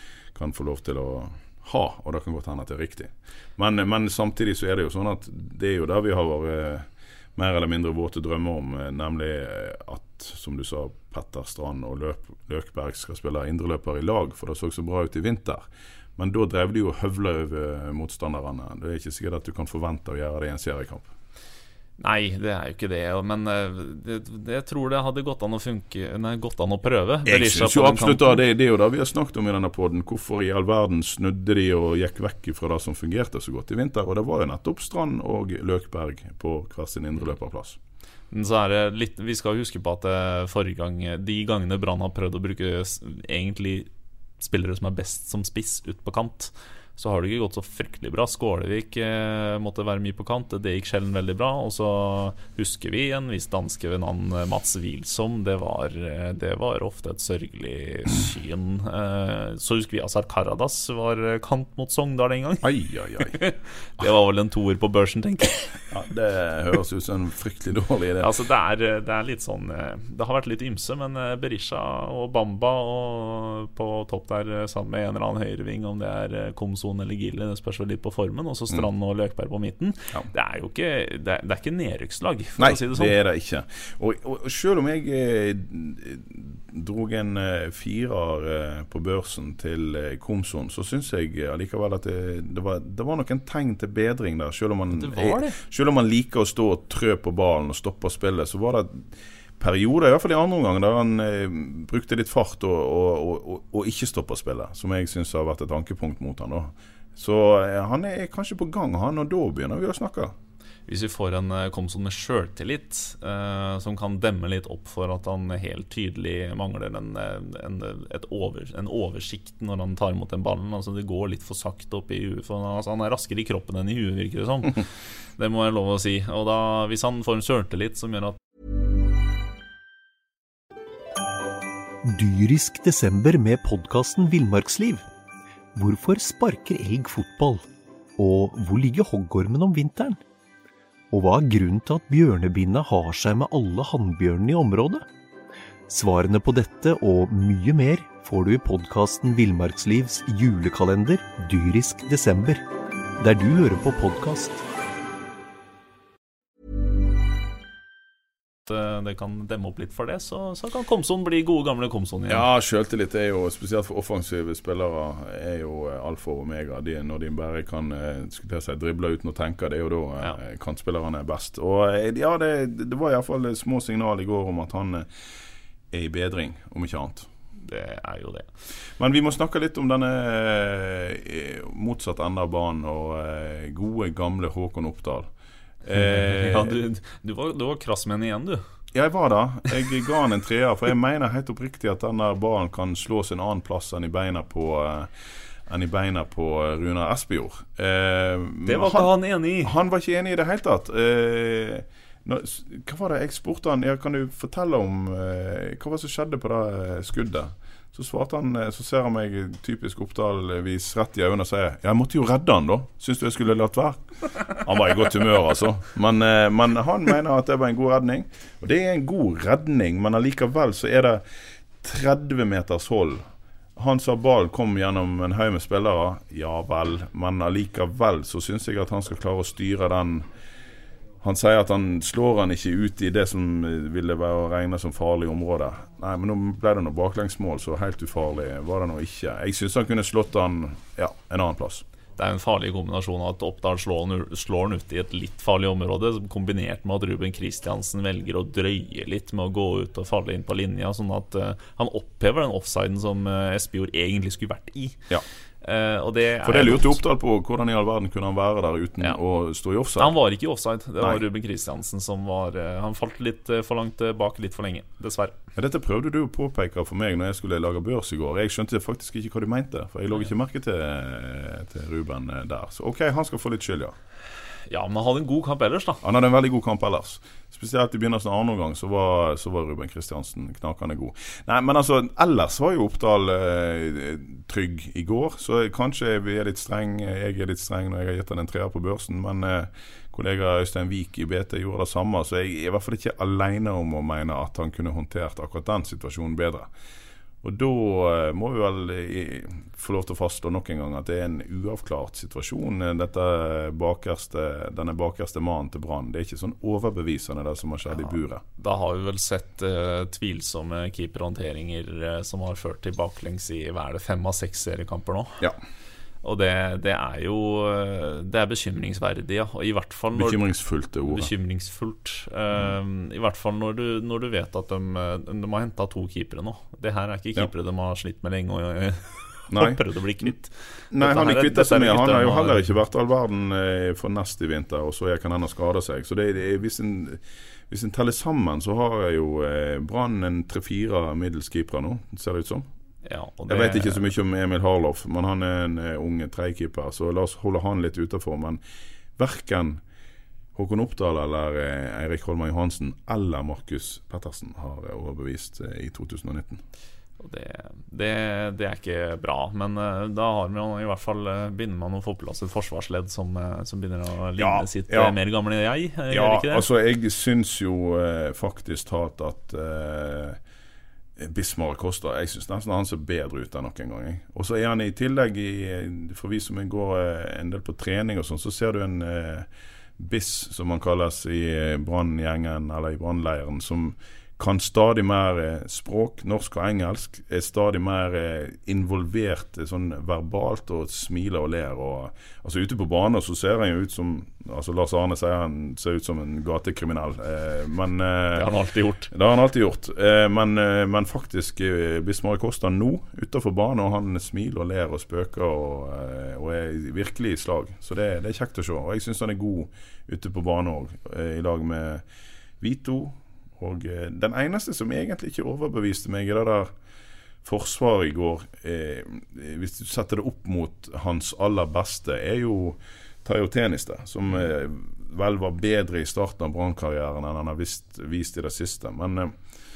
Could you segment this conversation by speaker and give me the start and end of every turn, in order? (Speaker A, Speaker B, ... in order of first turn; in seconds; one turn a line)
Speaker A: 0.3-15.6
Speaker A: 16.2-21.1
Speaker B: 22.0-28.4
Speaker A: 27.3-37.8
Speaker B: 38.3-62.6
Speaker A: 62.6-63.4
Speaker B: 63.3-65.8
Speaker A: 65.9-68.3
Speaker B: 68.2-83.2
Speaker A: 82.6-110.3
Speaker B: 94.9-95.6
Speaker B: 110.9-124.9
Speaker B: 125.4-128.4
Speaker C: 132.0-135.1
Speaker C: 135.8-137.6
Speaker C: 138.2-140.2
Speaker C: 141.1-145.1
Speaker C: 145.9-152.6
Speaker C: 153.2-154.6
Speaker B: 158.7-162.4
Speaker A: 162.3-175.1
Speaker A: 175.9-177.3
Speaker B: 177.6-178.5
Speaker A: 179.0-185.3
Speaker A: 185.8-186.8
Speaker B: 186.0-188.6
Speaker A: 188.9-195.1
Speaker A: 195.7-221.2
Speaker B: 198.7-199.7
Speaker A: 221.8-223.2
Speaker A: 223.8-230.3
Speaker A: 231.2-241.8
Speaker B: 242.2-255.0
Speaker B: 255.6-257.0
Speaker A: 256.4-260.1
Speaker B: 260.0-265.4
Speaker A: 261.0-261.2
Speaker A: 265.6-273.9
Speaker B: 274.7-276.0
Speaker A: 276.0-296.7
Speaker A: 297.4-308.4
Speaker B: 308.0-315.4
Speaker B: 316.2-320.4
Speaker A: 320.1-321.3
Speaker B: 321.1-332.6
Speaker A: 329.5-330.3
Speaker A: 330.9-342.7
Speaker B: 343.1-344.0
Speaker A: 343.5-348.6
Speaker A: 349.2-349.8
Speaker A: 350.6-356.6
Speaker B: 357.2-366.6
Speaker A: 364.4-365.2
Speaker A: 366.1-370.4
Speaker A: 371.2-398.5
Speaker B: 398.4-399.1
Speaker A: 399.1-412.0
Speaker A: 412.6-416.7
Speaker A: 417.4-429.4